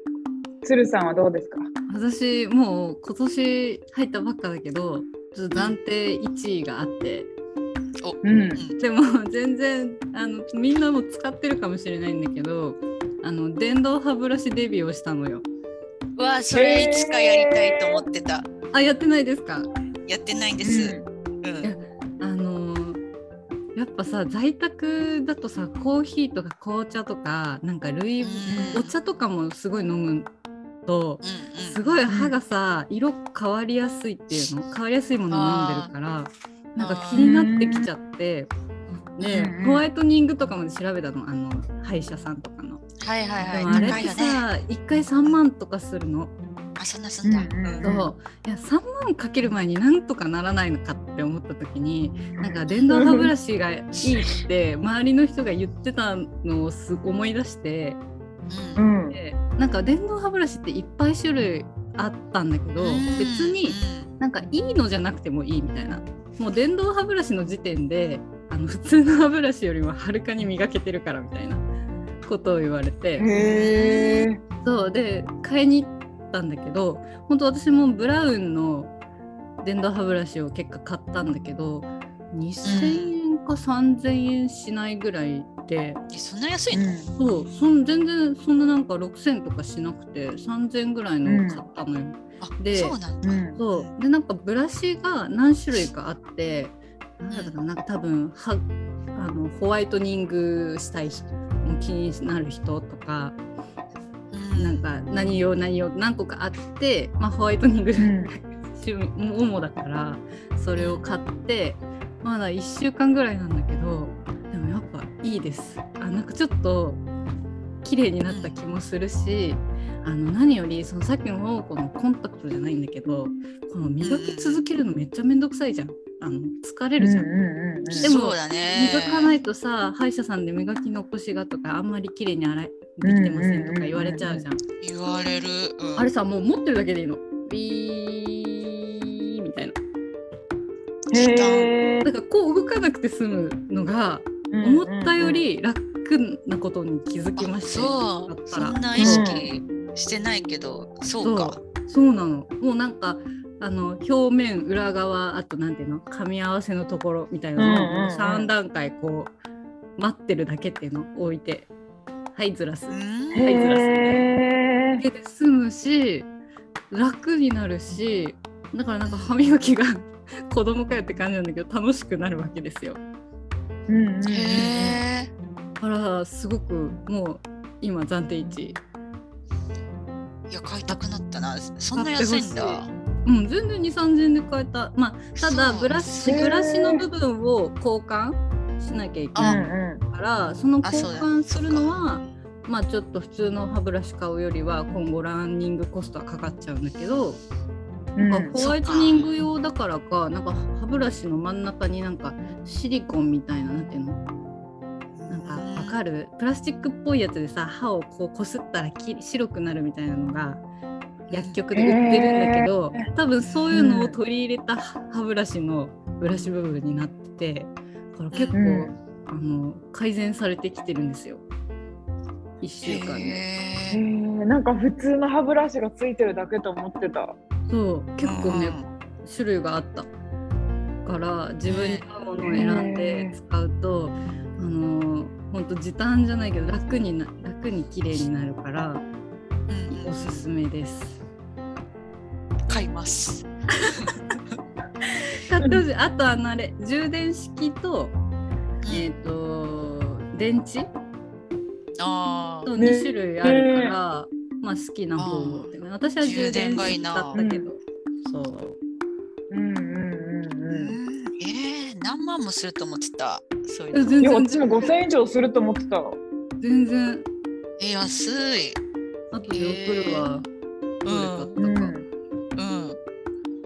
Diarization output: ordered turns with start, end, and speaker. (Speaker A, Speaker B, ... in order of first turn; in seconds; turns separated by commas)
Speaker A: 0.6-1.7, Speaker B: 1.9-7.3, Speaker C: 8.0-8.8, Speaker A: 8.2-8.7, Speaker B: 8.8-15.4, Speaker C: 16.2-18.5, Speaker A: 16.5-18.0, Speaker B: 18.7-19.7, Speaker C: 20.1-21.7, Speaker A: 20.6-21.1, Speaker B: 21.6-23.0, Speaker B: 23.8-30.3, Speaker C: 28.2-28.9, Speaker B: 30.9-38.5, Speaker C: 31.2-32.0, Speaker A: 32.1-32.4, Speaker C: 35.3-35.9, Speaker C: 36.8-37.4, Speaker A: 37.2-37.9, Speaker B: 39.1-42.9, Speaker A: 39.2-39.9, Speaker C: 43.0-44.5, Speaker B: 43.4-46.3, Speaker A: 43.7-44.0, Speaker C: 46.8-47.9, Speaker A: 47.2-48.1, Speaker B: 47.8-58.0, Speaker A: 52.4-53.3, Speaker C: 58.5-58.8, Speaker A: 58.8-59.2, Speaker B: 59.1-71.6, Speaker C: 62.8-64.1, Speaker B: 72.2-73.3, Speaker A: 73.2-74.4, Speaker C: 73.3-74.3, Speaker B: 74.6-78.9, Speaker B: 79.6-86.0, Speaker C: 82.7-83.2, Speaker C: 86.1-86.9, Speaker A: 86.7-87.1, Speaker B: 87.2-93.0, Speaker A: 91.2-91.6, Speaker C: 92.4-93.9, Speaker A: 93.2-93.6, Speaker B: 93.6-103.4, Speaker C: 97.3-97.6, Speaker C: 104.3-104.9, Speaker B: 104.6-117.0, Speaker A: 108.0-108.3, Speaker C: 110.8-111.0, Speaker B: 117.8-127.3, Speaker C: 118.3-118.6, Speaker C: 124.0-124.7, Speaker A: 127.0-128.1, Speaker C: 128.0-129.4, Speaker B: 128.0-134.6, Speaker A: 133.0-134.4, Speaker C: 134.8-136.1, Speaker B: 136.0-139.8, Speaker C: 141.1-141.7, Speaker A: 141.1-142.1, Speaker B: 142.0-149.3, Speaker A: 144.5-145.4, Speaker C: 147.4-151.6, Speaker A: 149.0-149.5, Speaker B: 151.2-159.3, Speaker A: 157.6-158.5, Speaker B: 160.0-161.7, Speaker B: 162.3-164.2, Speaker C: 162.9-163.5, Speaker A: 163.3-165.0, Speaker B: 165.0-166.3, Speaker B: 166.9-173.0, Speaker C: 169.1-169.4, Speaker A: 173.9-175.0, Speaker C: 174.3-175.3, Speaker B: 175.8-178.8, Speaker C: 180.5-182.9, Speaker B: 181.9-197.4, Speaker C: 185.4-186.5, Speaker A: 186.3-187.0, Speaker C: 189.3-189.6, Speaker A: 189.4-190.0, Speaker C: 190.8-192.1, Speaker A: 198.2-198.5, Speaker B: 198.3-204.2, Speaker C: 198.6-199.3, Speaker C: 205.2-206.0, Speaker B: 205.3-210.6, Speaker C: 211.3-211.6, Speaker B: 211.3-221.4, Speaker A: 211.7-213.1, Speaker C: 213.4-213.8, Speaker A: 213.7-214.2, Speaker A: 218.5-218.9, Speaker B: 222.6-223.4, Speaker C: 222.8-224.0, Speaker A: 223.9-227.4, Speaker B: 227.7-230.1, Speaker C: 228.2-228.9, Speaker B: 231.1-239.0, Speaker C: 231.7-232.0, Speaker A: 232.4-233.4, Speaker C: 239.7-240.5, Speaker B: 239.9-241.2, Speaker C: 242.7-243.5, Speaker B: 245.3-248.2, Speaker C: 248.8-249.1, Speaker B: 248.9-250.9, Speaker C: 252.0-252.7, Speaker B: 252.7-258.8, Speaker A: 252.8-254.0, Speaker C: 255.2-257.4, Speaker A: 257.4-257.7, Speaker A: 259.5-261.0, Speaker C: 260.7-264.2, Speaker B: 263.9-264.7, Speaker A: 264.2-266.2, Speaker B: 266.6-267.3, Speaker C: 267.8-268.8, Speaker B: 269.3-270.5, Speaker C: 269.5-270.3, Speaker C: 271.0-271.6, Speaker B: 271.1-271.9, Speaker A: 271.6-272.1, Speaker C: 272.6-273.0